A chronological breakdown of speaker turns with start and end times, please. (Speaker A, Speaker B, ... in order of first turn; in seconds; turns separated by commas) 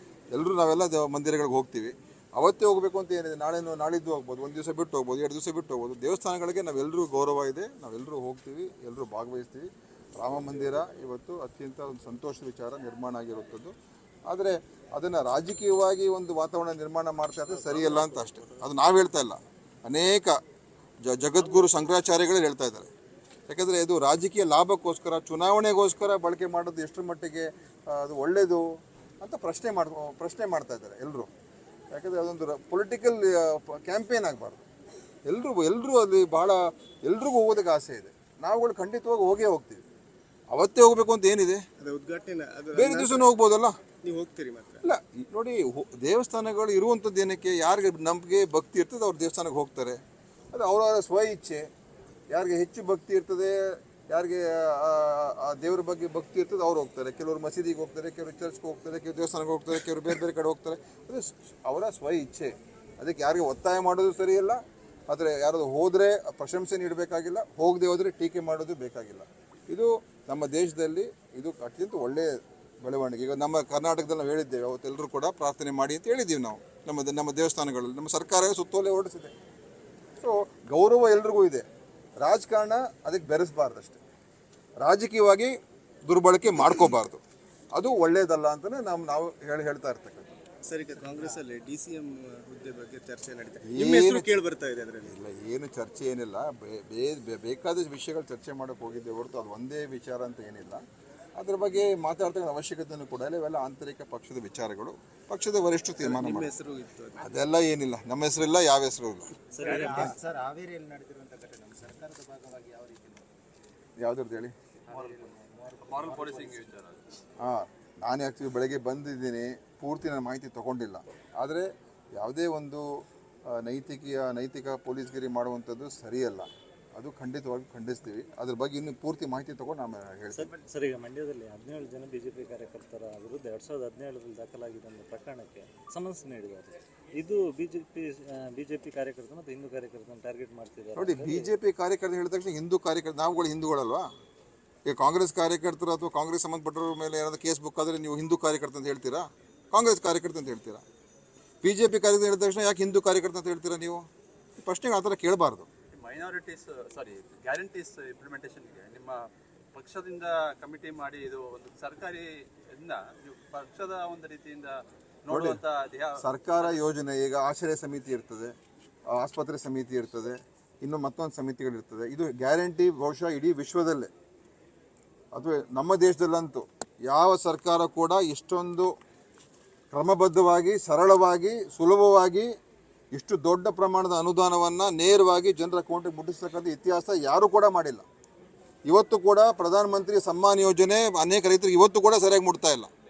Speaker A: 0.3-13.7, Speaker A: 14.3-20.4, Speaker B: 17.5-18.4, Speaker A: 21.0-22.9, Speaker A: 23.5-28.7, Speaker A: 29.2-31.3, Speaker A: 31.9-34.6, Speaker A: 35.3-39.8, Speaker A: 40.5-41.6, Speaker C: 41.8-43.3, Speaker A: 42.7-43.8, Speaker C: 44.0-44.9, Speaker A: 44.8-50.0, Speaker A: 50.5-51.7, Speaker A: 52.3-79.3, Speaker A: 80.2-81.7, Speaker A: 82.2-84.0, Speaker A: 84.8-85.5, Speaker A: 86.1-87.2, Speaker A: 87.7-90.4, Speaker C: 90.6-95.2, Speaker A: 93.6-94.4, Speaker A: 95.0-100.8, Speaker A: 101.4-106.5, Speaker C: 106.0-107.3, Speaker A: 107.2-109.3, Speaker D: 109.5-113.3, Speaker B: 109.6-110.1, Speaker E: 109.6-110.1, Speaker A: 114.0-114.5, Speaker D: 114.9-116.7, Speaker E: 114.9-117.0, Speaker A: 117.4-130.5, Speaker B: 130.3-141.6, Speaker A: 141.0-144.1, Speaker A: 144.9-150.8, Speaker A: 151.6-155.7, Speaker E: 155.9-166.9, Speaker A: 165.3-165.6, Speaker A: 166.2-168.5, Speaker A: 169.1-174.1, Speaker A: 175.3-178.9, Speaker A: 179.9-182.5, Speaker A: 183.1-188.1, Speaker A: 188.9-192.9